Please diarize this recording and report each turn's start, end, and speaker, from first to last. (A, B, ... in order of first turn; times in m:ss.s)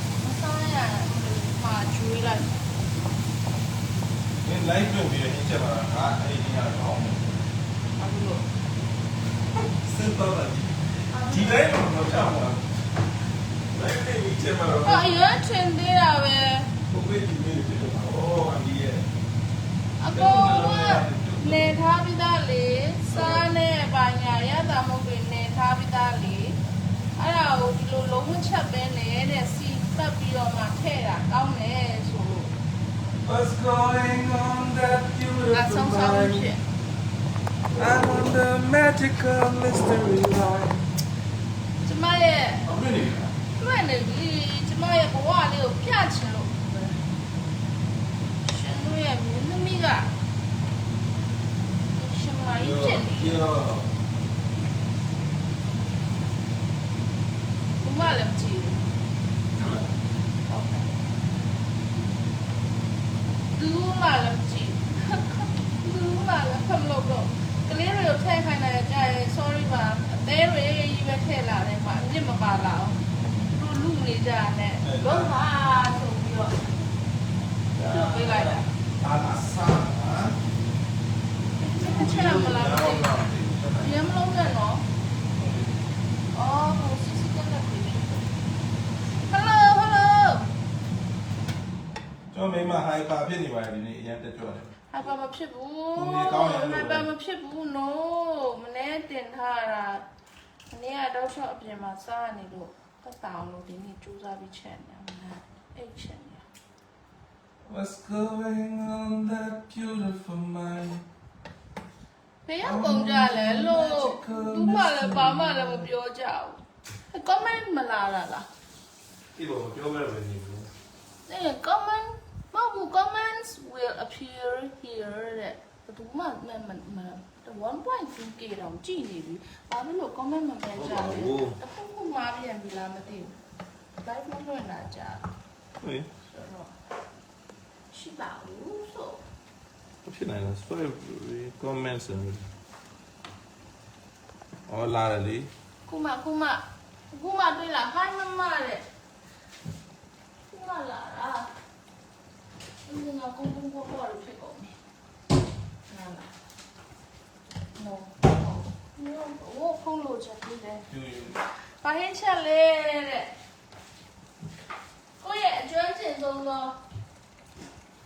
0:00.2-0:02.6 A
0:04.4-0:07.3 B
0:08.0-0:08.4 A
0:09.7-0:12.9 B
0:11.1-0:11.7 A
0:13.7-0:15.1 B
0:14.8-0:16.7 A
0:16.9-0:19.0 B
0:20.0-0:26.6 A
0:20.1-0:21.8 B
0:23.1-0:23.5 B
0:27.2-0:32.5 A
0:33.2-0:36.5 B
0:35.5-0:36.6 A
0:37.7-0:40.9 B
0:41.8-0:42.8 A
0:42.7-0:43.3 B
0:43.5-0:47.0 A
0:48.4-0:50.1 A
0:52.0-0:53.4 A
0:52.5-0:53.9 B
0:57.8-0:58.8 A
0:59.5-0:59.9 B
1:00.5-1:01.0 A
1:03.5-1:16.7 A
1:14.8-1:15.3 B
1:17.7-1:20.4 B
1:17.8-1:18.7 A
1:21.6-1:23.1 A
1:21.8-1:24.0 B
1:23.8-1:24.8 A
1:25.3-1:25.8 B
1:26.3-1:28.2 A
1:29.3-1:30.5 A
1:32.3-1:34.7 B
1:34.9-1:40.1 A
1:35.9-1:37.1 B
1:40.7-1:46.4 A
1:47.6-1:51.0 B
1:52.4-1:58.5 A
1:52.6-1:55.9 B
1:59.4-2:00.7 B
2:01.2-2:13.4 A
2:10.7-2:11.6 B
2:14.0-2:15.2 A
2:15.8-2:16.1 B
2:16.2-2:16.7 A
2:17.9-2:19.2 A
2:20.0-2:22.4 B
2:24.7-2:25.5 B
2:25.9-2:28.8 A
2:30.5-2:31.5 A
2:32.8-2:34.7 A
2:35.9-2:36.3 A
2:37.8-2:40.9 A
2:40.9-2:41.4 B
2:41.4-2:43.3 A
2:45.2-2:46.8 A